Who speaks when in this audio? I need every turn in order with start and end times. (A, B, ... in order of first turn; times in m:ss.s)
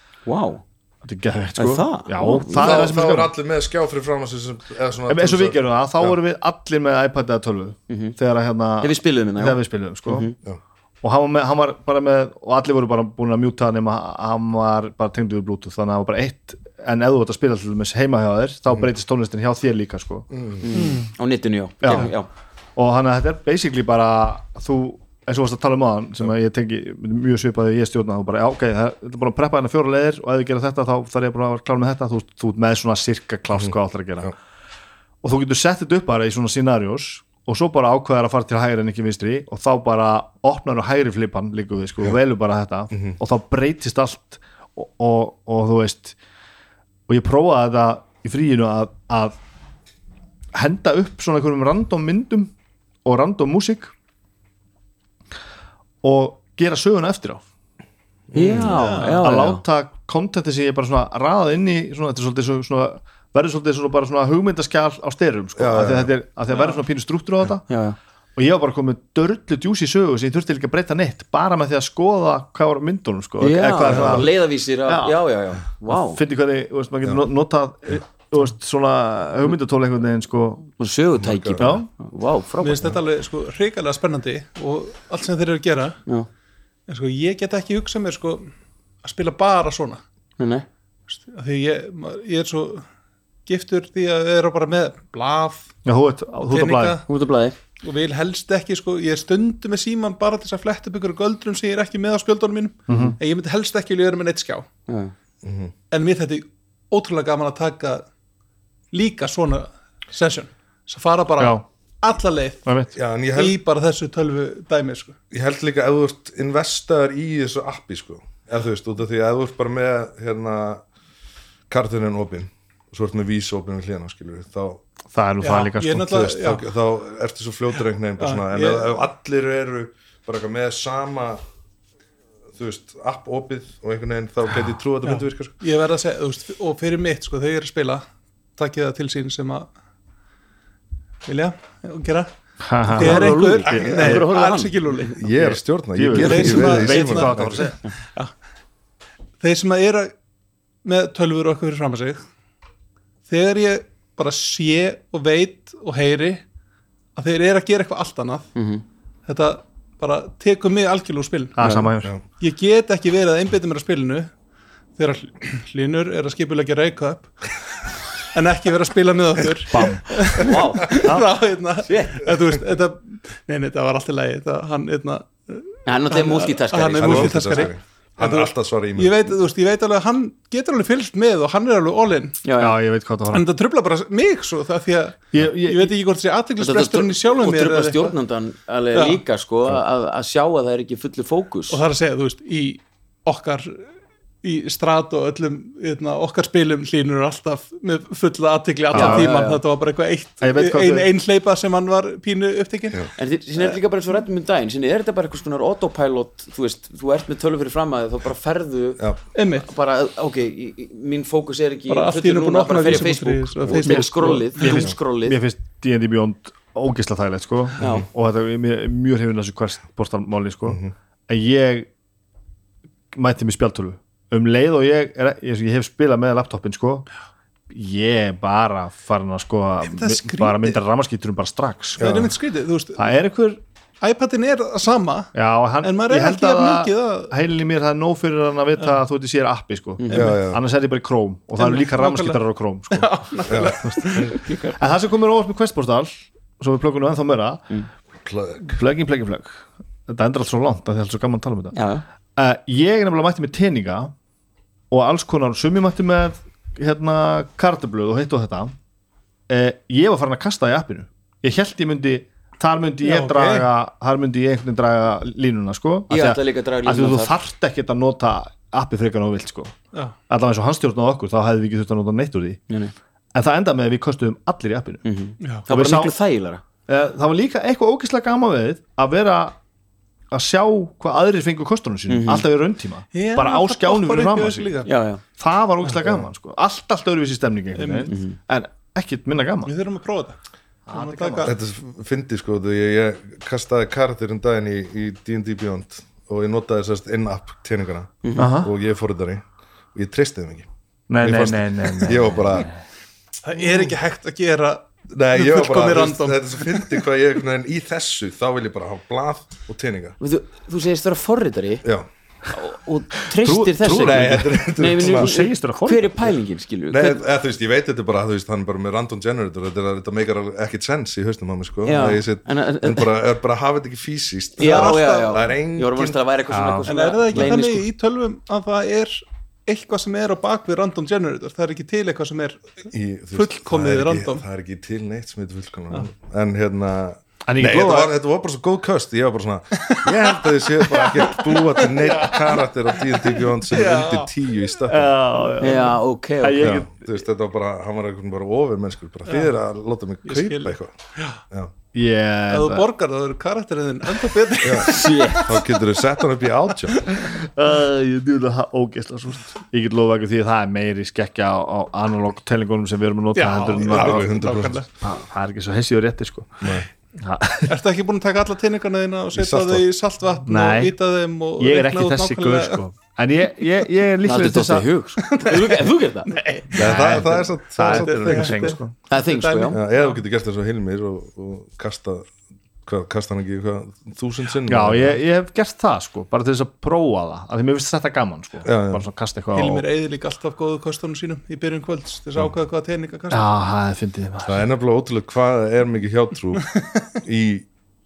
0:00.3-0:00.6 A
0:01.0-0:03.3 B
0:01.6-0:03.0 A
0:02.6-0:06.2 C
0:05.1-0:10.3 B
0:07.9-0:08.2 A
0:08.8-0:10.4 A
0:11.0-0:20.3 B
0:20.3-0:20.7 C
0:20.6-0:22.3 A
0:20.7-0:21.1 D
0:21.8-0:22.1 B
0:22.8-0:34.3 B
0:35.2-0:46.2 B
0:47.1-0:49.4 B
0:50.5-0:52.5 B
0:53.0-0:53.9 B
0:56.0-0:57.4 B
0:58.3-0:58.8 C
0:58.3-0:59.6 A
0:58.6-0:59.3 D
0:59.0-1:07.7 B
1:05.6-1:06.1 C
1:06.5-1:06.8 D
1:07.7-1:08.0 A
1:08.4-1:15.2 B
1:13.4-1:16.2 A
1:13.8-1:14.3 C
1:15.9-1:20.7 B
1:20.8-1:23.0 A
1:21.2-1:21.7 C
1:21.6-1:21.9 B
1:22.6-1:26.0 D
1:26.9-1:28.5 D
1:29.0-1:30.0 D
1:30.4-1:30.7 A
1:31.1-1:32.8 D
1:33.4-1:35.7 D
1:35.9-1:37.0 B
1:36.5-1:37.0 D
1:37.0-1:37.6 A
1:37.8-1:44.7 D
1:42.9-1:43.2 B
1:42.9-1:43.2 A
1:44.9-1:45.1 A
1:45.4-1:45.7 C
1:45.9-1:48.0 D
1:48.9-1:52.7 D
1:51.4-1:51.6 B
1:52.7-1:52.9 B
1:53.0-1:53.6 C
1:53.3-1:55.2 D
1:55.3-2:00.8 C
2:01.7-2:04.8 C
2:05.1-2:06.3 B
2:05.4-2:06.7 D
2:06.2-2:11.4 C
2:08.2-2:08.9 D
2:12.6-2:15.5 C
2:15.0-2:18.0 D
2:18.6-2:19.7 D
2:21.3-2:22.3 D
2:22.6-2:24.3 B
2:22.9-2:25.3 D
2:23.0-2:25.2 A
2:25.1-2:27.6 C
2:25.4-2:27.8 B
2:26.1-2:28.3 D
2:29.4-2:30.1 D
2:30.8-2:32.2 D
2:33.3-2:36.4 D
2:37.2-2:38.5 D
2:38.6-2:38.8 A
2:39.3-2:41.7 D
2:41.6-2:42.1 B
2:41.6-2:41.9 A
2:42.4-2:44.3 D
2:45.0-2:47.4 D
2:48.3-3:02.4 D
2:49.7-2:51.3 B
2:50.3-2:51.1 A
2:51.8-2:52.3 A
2:55.9-2:57.7 A
2:57.0-2:59.3 C
3:02.4-3:02.8 A
3:02.6-3:03.4 B
3:03.3-3:08.1 D
3:05.3-3:05.9 B
3:06.6-3:11.8 A
3:08.9-3:09.2 D
3:11.7-3:13.9 D
3:14.4-3:23.8 D
3:18.9-3:19.4 B
3:18.9-3:19.6 A
3:20.4-3:21.1 B
3:23.2-3:35.4 A
3:29.3-3:29.7 D
3:31.9-3:34.9 D
3:33.7-3:41.9 B
3:37.8-3:38.0 A
3:37.8-3:38.1 C
3:40.7-3:40.9 C
3:43.1-3:47.1 B
3:47.7-3:52.1 B
3:49.9-3:50.8 D
3:52.0-3:52.3 C
3:52.0-3:53.2 D
3:53.0-3:53.6 B
3:54.0-3:57.3 D
3:55.3-4:07.7 B
4:00.0-4:00.4 A
4:00.1-4:00.4 D
4:00.1-4:00.6 C
4:01.6-4:04.6 D
4:03.5-4:04.4 C
4:08.2-4:08.8 C
4:08.6-4:11.8 B
4:11.7-4:12.0 A
4:12.4-4:14.1 B
4:14.9-4:18.7 B
4:19.5-4:29.7 B
4:23.0-4:23.7 D
4:26.1-4:27.3 A
4:30.3-4:32.6 B
4:33.3-4:35.0 B
4:35.0-4:36.6 A
4:35.4-4:35.7 D
4:35.7-4:36.1 B
4:36.9-4:39.6 B
4:40.3-4:44.8 B
4:42.1-4:42.4 A
4:43.1-4:44.9 D
4:44.8-4:45.2 A
4:45.4-4:49.7 B
4:47.7-4:48.1 D
4:48.1-4:48.4 A
4:49.7-4:50.4 D
4:50.9-4:51.5 B
4:50.9-4:51.6 D
4:51.4-5:00.7 C
4:58.2-4:58.6 A
4:58.4-4:58.7 B
5:01.1-5:02.8 B
5:01.2-5:02.7 C
5:03.4-5:07.0 D
5:05.1-5:10.2 C
5:10.2-5:11.8 A
5:12.5-5:17.3 A
5:13.4-5:16.3 B
5:13.9-5:15.3 C
5:16.9-5:26.2 C
5:21.8-5:23.1 A
5:24.6-5:25.5 D
5:24.6-5:27.9 A
5:26.5-5:26.9 B
5:26.9-5:32.6 D
5:32.9-5:45.5 C
5:33.3-5:34.4 D
5:37.4-5:38.1 B
5:39.8-5:44.3 D
5:44.9-5:47.2 B
5:45.6-5:46.8 A
5:46.6-5:50.9 C
5:49.3-5:49.5 D
5:50.2-5:51.4 D
5:51.9-5:52.9 B
5:52.5-5:56.0 D
5:54.6-5:57.1 C
5:54.8-5:55.6 A
5:57.1-6:04.3 B
6:03.3-6:04.9 D
6:03.9-6:04.8 C
6:05.0-6:07.7 B
6:06.6-6:06.9 C
6:07.7-6:12.8 D
6:09.3-6:09.8 C
6:10.4-6:11.0 B
6:11.6-6:14.9 B
6:14.2-6:16.4 A
6:15.2-6:17.2 D
6:16.7-6:18.9 B
6:16.7-6:18.8 C
6:17.8-6:20.2 D
6:19.1-6:19.8 A
6:19.7-6:22.3 C
6:22.8-6:25.2 C
6:24.7-6:29.8 B
6:28.6-6:29.0 C
6:29.5-6:33.5 D
6:33.3-6:34.6 B
6:34.4-6:37.7 C